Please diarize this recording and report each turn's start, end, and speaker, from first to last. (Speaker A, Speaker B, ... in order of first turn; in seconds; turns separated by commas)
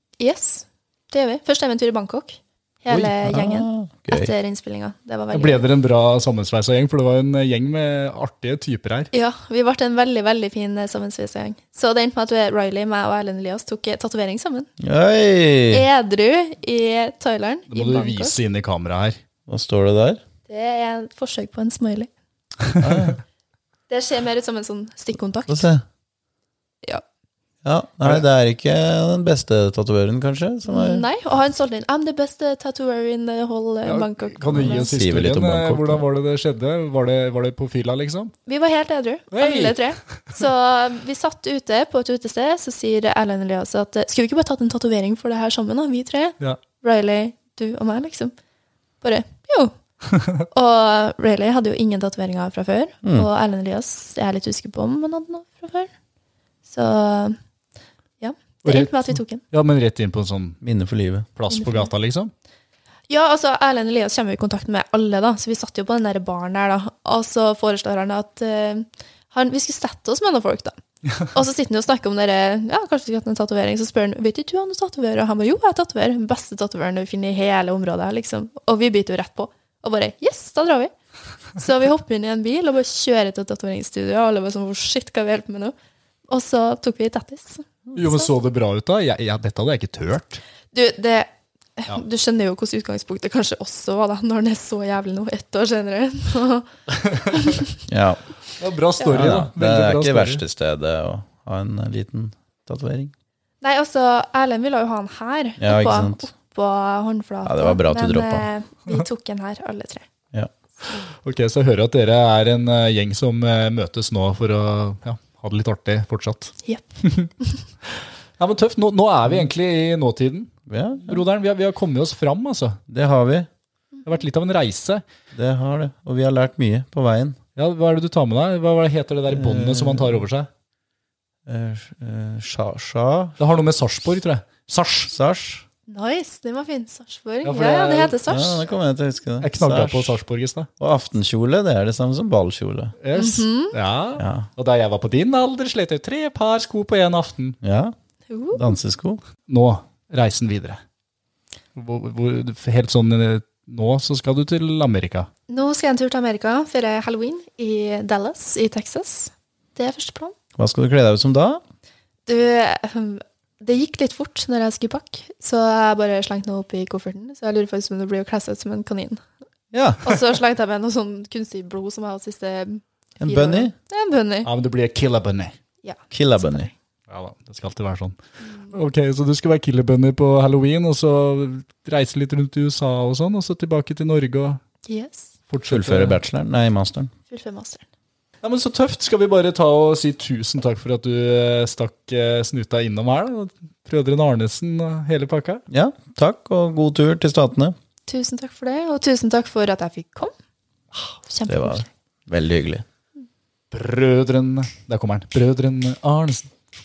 Speaker A: 0.2-5.6, Speaker B: 3.2-4.3, Speaker C: 5.3-9.1, Speaker A: 9.1-14.7, Speaker B: 14.8-15.9, Speaker A: 15.7-18.4, Speaker C: 17.7-19.2, Speaker B: 19.5-20.2, Speaker A: 20.5-22.1, Speaker C: 22.7-23.1, Speaker B: 22.8-23.2, Speaker A: 23.9-25.7, Speaker B: 25.5-25.8, Speaker B: 27.6-31.1, Speaker A: 30.7-34.9, Speaker C: 33.9-38.3, Speaker B: 34.5-36.0, Speaker A: 38.5-48.3, Speaker C: 39.3-40.2, Speaker A: 49.0-49.7, Speaker C: 50.0-50.5, Speaker A: 50.5-55.9, Speaker A: 56.7-57.4, Speaker A: 58.2-59.4, Speaker C: 58.7-60.6, Speaker B: 60.6-61.3, Speaker C: 61.4-62.3, Speaker A: 61.5-61.9, Speaker A: 63.1-80.9, Speaker A: 81.5-85.7, Speaker A: 86.3-88.3, Speaker C: 87.9-90.4, Speaker A: 90.7-96.7, Speaker C: 96.9-97.6, Speaker A: 97.3-97.8, Speaker B: 97.9-98.2, Speaker C: 98.6-100.4, Speaker B: 99.1-103.1, Speaker A: 103.6-110.1, Speaker B: 105.6-106.2, Speaker B: 107.5-108.5, Speaker C: 111.2-117.3, Speaker A: 116.7-117.6, Speaker C: 117.9-122.8, Speaker B: 120.7-121.2, Speaker B: 122.9-123.5, Speaker C: 124.0-125.0, Speaker B: 125.3-127.4, Speaker C: 127.6-130.5, Speaker B: 129.3-130.2, Speaker B: 131.5-133.4, Speaker C: 133.4-135.1, Speaker B: 135.1-135.7, Speaker A: 135.9-138.7, Speaker C: 137.4-138.2, Speaker B: 138.3-140.2, Speaker C: 139.4-140.7, Speaker B: 140.8-142.9, Speaker C: 143.0-147.6, Speaker A: 143.2-143.8, Speaker B: 144.2-144.5, Speaker B: 147.6-147.9, Speaker A: 148.3-148.7, Speaker B: 148.5-149.2, Speaker C: 149.5-150.8, Speaker C: 151.8-155.3, Speaker A: 155.5-160.3, Speaker B: 160.6-161.6, Speaker A: 162.3-169.2, Speaker B: 169.7-170.0, Speaker A: 170.0-174.5, Speaker B: 173.2-173.7, Speaker C: 174.4-175.6, Speaker A: 175.8-176.7, Speaker B: 176.1-176.7, Speaker C: 177.1-178.2, Speaker A: 178.4-178.8, Speaker C: 178.7-184.6, Speaker A: 184.9-185.3, Speaker C: 185.5-186.2, Speaker B: 185.7-187.1, Speaker A: 187.3-187.8, Speaker C: 188.4-195.7, Speaker B: 195.7-197.8, Speaker A: 198.1-200.3, Speaker A: 201.2-201.9, Speaker B: 201.5-202.8, Speaker C: 203.7-206.5